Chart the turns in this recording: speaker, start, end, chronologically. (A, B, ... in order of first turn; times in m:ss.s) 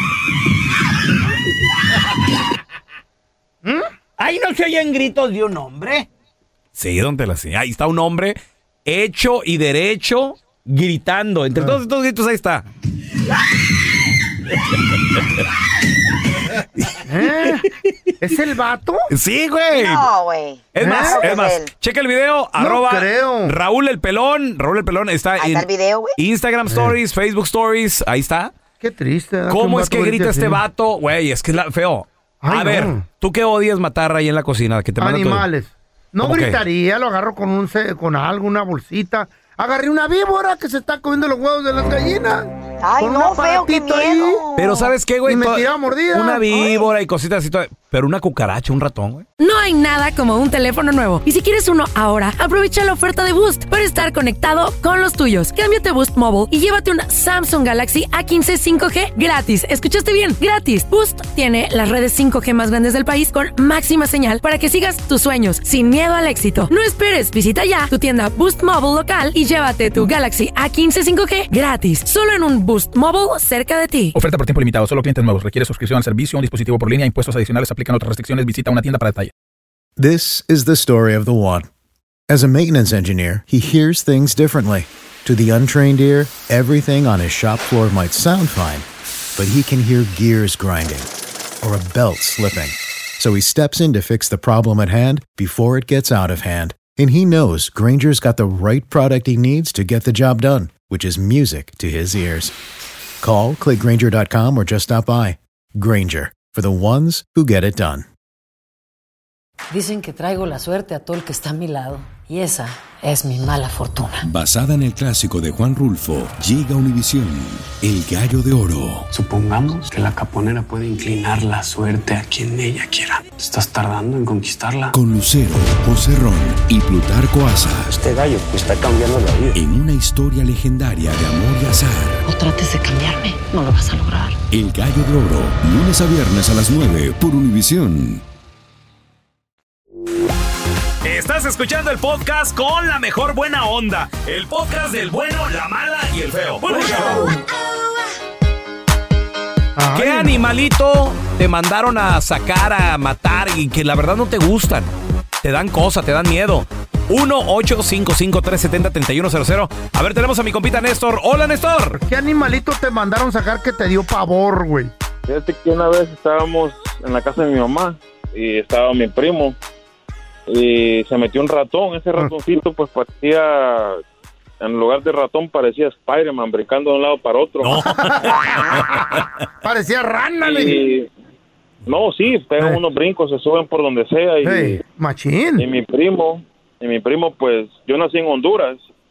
0:03.6-0:03.9 A
0:04.2-0:06.1 B
0:06.8-0:12.7 B
0:11.6-0:11.8 A
0:16.8-0:17.7 B
0:17.1-0:17.7 A
0:18.2-0:19.1 A
0:19.1-0:20.1 B
0:19.7-0:21.7 C
0:20.7-0:28.5 B
0:20.8-0:21.3 A
0:22.6-0:23.6 A
0:25.4-0:26.2 C
0:26.7-0:27.0 A
0:28.8-0:30.6 A
0:29.5-0:35.5 B
0:32.4-0:33.0 A
0:35.0-0:44.4 A
0:36.2-0:36.6 B
0:42.8-0:44.9 C
0:44.6-0:49.3 B
0:45.2-0:46.5 A
0:46.5-0:46.8 C
0:49.4-1:14.1 D
1:14.1-1:19.3 E
1:20.0-1:21.7 F
1:22.3-1:31.1 F
1:31.6-1:42.5 F
1:43.2-1:48.1 F
1:49.7-1:54.2 G
1:54.2-1:59.1 H
1:59.1-2:04.9 I
2:04.9-2:08.0 H
2:09.5-2:12.2 H
2:12.3-2:14.4 G
2:14.5-2:18.2 H
2:21.0-2:27.4 B
2:29.8-2:30.4 A
2:29.9-2:34.9 B
2:35.4-2:42.0 B
2:42.0-2:44.9 A
2:45.3-2:49.6 J
2:50.5-2:54.0 J
2:54.6-2:57.8 J
2:57.6-2:59.3 B
2:57.9-2:58.4 A
2:59.6-3:00.8 A
3:00.4-3:01.1 J
3:01.9-3:04.8 J
3:04.4-3:05.7 A
3:05.6-3:08.8 J